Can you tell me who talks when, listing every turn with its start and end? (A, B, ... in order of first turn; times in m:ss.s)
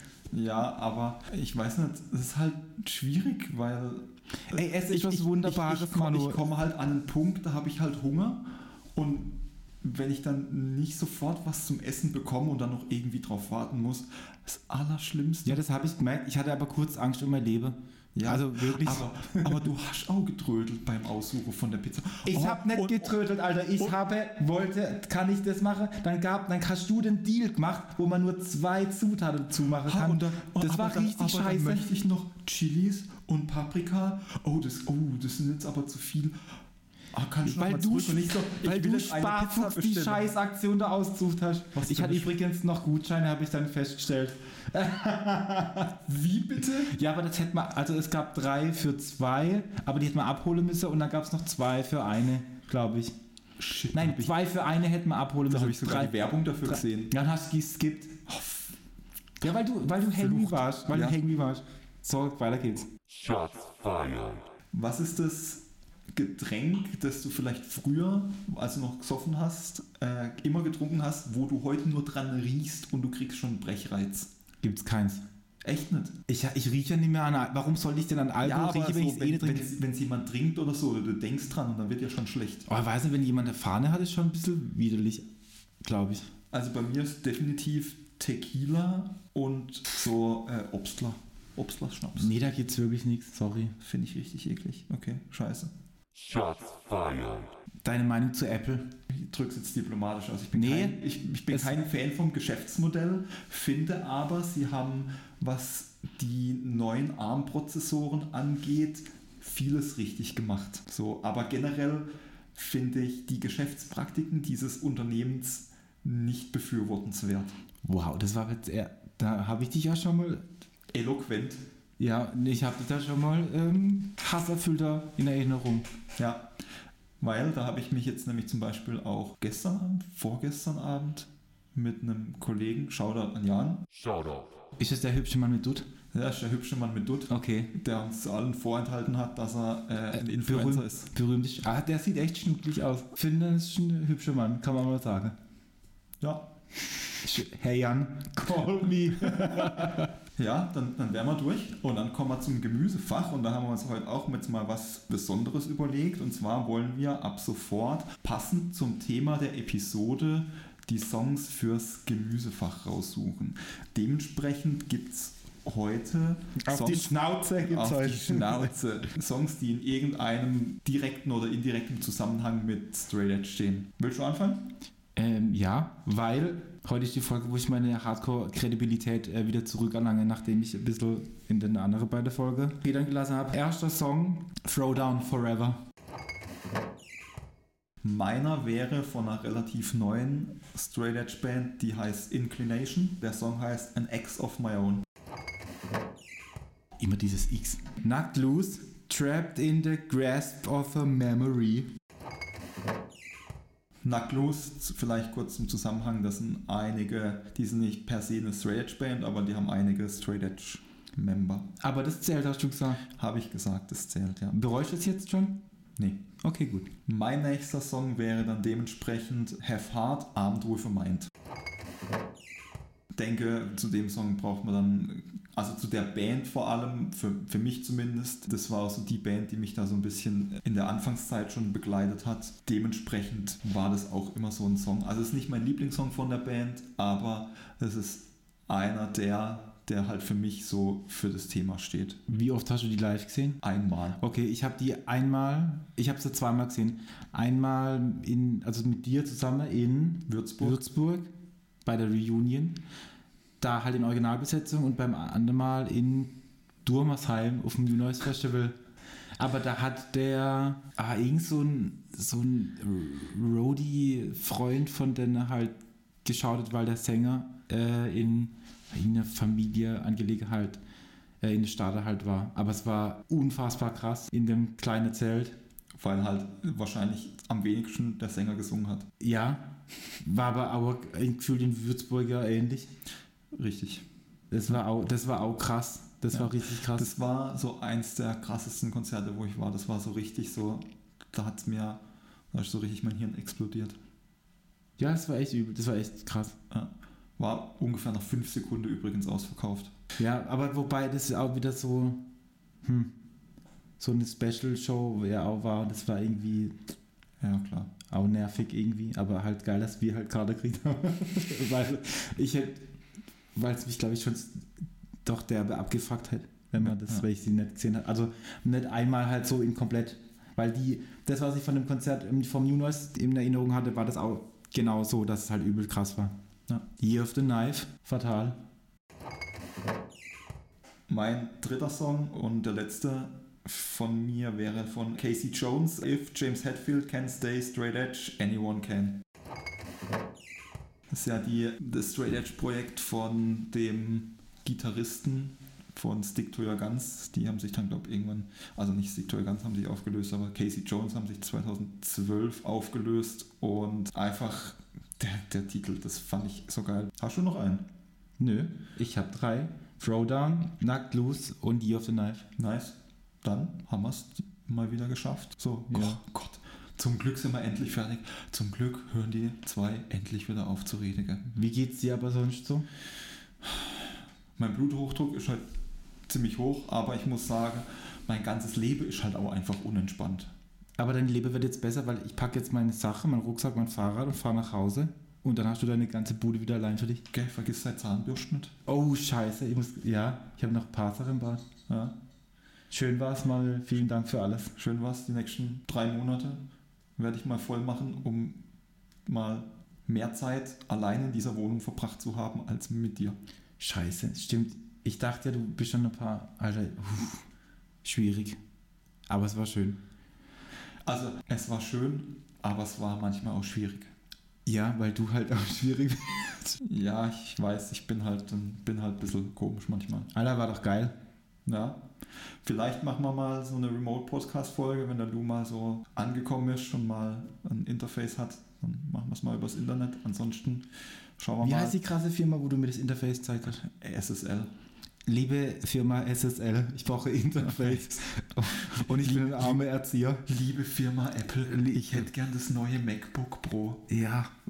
0:00.3-0:15.6 A
0:04.5-0:06.4 B
0:15.4-0:19.6 B
0:18.1-0:23.2 A
0:22.2-0:31.9 B
0:29.8-0:36.4 A
0:37.1-0:40.3 A
0:37.4-0:46.0 B
0:41.7-0:42.3 A
0:46.0-0:46.9 A
0:46.9-0:53.1 B
0:53.6-0:54.4 A
0:53.9-0:58.2 B
0:55.5-0:57.1 A
0:58.3-0:58.7 A
0:59.4-1:02.9 B
1:00.1-1:01.2 A
1:03.1-1:04.4 C
1:04.7-1:14.3 A
1:14.6-1:15.2 B
1:15.6-1:16.2 A
1:16.3-1:19.7 B
1:18.4-1:22.7 A
1:22.7-1:25.3 B
1:25.8-1:26.3 B
1:26.5-1:32.3 A
1:32.2-1:33.7 B
1:33.8-1:35.7 A
1:36.1-1:37.5 C
1:37.8-1:38.9 B
1:39.1-1:57.5 A
1:40.5-1:41.8 B
1:57.8-2:00.4 B
2:00.9-2:01.6 A
2:02.0-2:05.9 B
2:06.2-2:06.5 A
2:07.2-2:13.9 A
2:13.9-2:14.6 C
2:14.8-2:15.9 B
2:16.1-2:21.1 A
2:17.3-2:17.7 B
2:20.1-2:25.4 B
2:26.2-2:26.5 A
2:27.2-2:30.1 B
2:30.4-2:54.8 A
2:46.6-2:48.7 B
2:55.2-3:05.8 B
3:08.0-3:15.0 A
3:17.0-3:21.9 B
3:24.0-3:31.7 A
3:31.8-3:33.0 B
3:33.1-3:34.6 A
3:34.5-3:35.6 B
3:36.0-3:36.3 A
3:36.4-3:36.9 B
3:37.0-3:41.3 A
3:43.1-4:02.2 A
4:02.3-4:03.6 B
4:03.6-4:04.2 A
4:04.2-4:11.3 B
4:10.3-4:10.8 A
4:11.8-4:12.8 B
4:13.6-4:18.8 B
4:19.4-4:30.8 B
4:31.4-4:35.6 B
4:36.0-4:39.1 A
4:39.2-4:42.9 B
4:43.5-4:44.0 A
4:44.5-4:47.1 B
4:46.3-4:54.0 A
4:55.0-4:56.6 B
4:56.7-4:59.9 A
5:00.2-5:02.3 B
5:02.8-5:03.1 B
5:04.0-5:06.8 B
5:07.4-5:07.9 A
5:08.1-5:12.8 B
5:13.5-5:26.3 B
5:16.8-5:17.2 A
5:27.0-5:28.6 B
5:31.1-5:39.2 A
5:41.1-5:57.9 A
5:58.4-6:02.5 B
6:02.6-6:11.5 A
6:05.9-6:06.2 B
6:11.5-6:12.9 B
6:13.6-6:14.0 A
6:14.6-6:15.6 A
6:16.3-6:20.5 A
6:21.0-6:27.2 B
6:27.3-6:28.7 A
6:28.8-6:31.6 B
6:31.9-6:32.2 A
6:32.9-6:34.7 B
6:34.7-6:36.6 A
6:37.2-6:38.6 A
6:39.2-6:43.4 A
6:43.8-6:47.4 B
6:48.0-6:48.6 B
6:49.3-6:50.0 B
6:51.0-6:54.1 A
6:54.6-6:56.8 B
6:56.8-7:00.3 A
7:00.3-7:01.1 B
7:01.6-7:02.1 A
7:02.6-7:10.9 A
7:11.4-7:12.0 A
7:11.6-7:13.8 B
7:13.7-7:14.7 A
7:15.2-7:20.4 B
7:17.7-7:18.2 A
7:18.8-7:19.8 A
7:20.4-7:24.1 A
7:21.7-7:22.3 B
7:24.1-7:24.5 B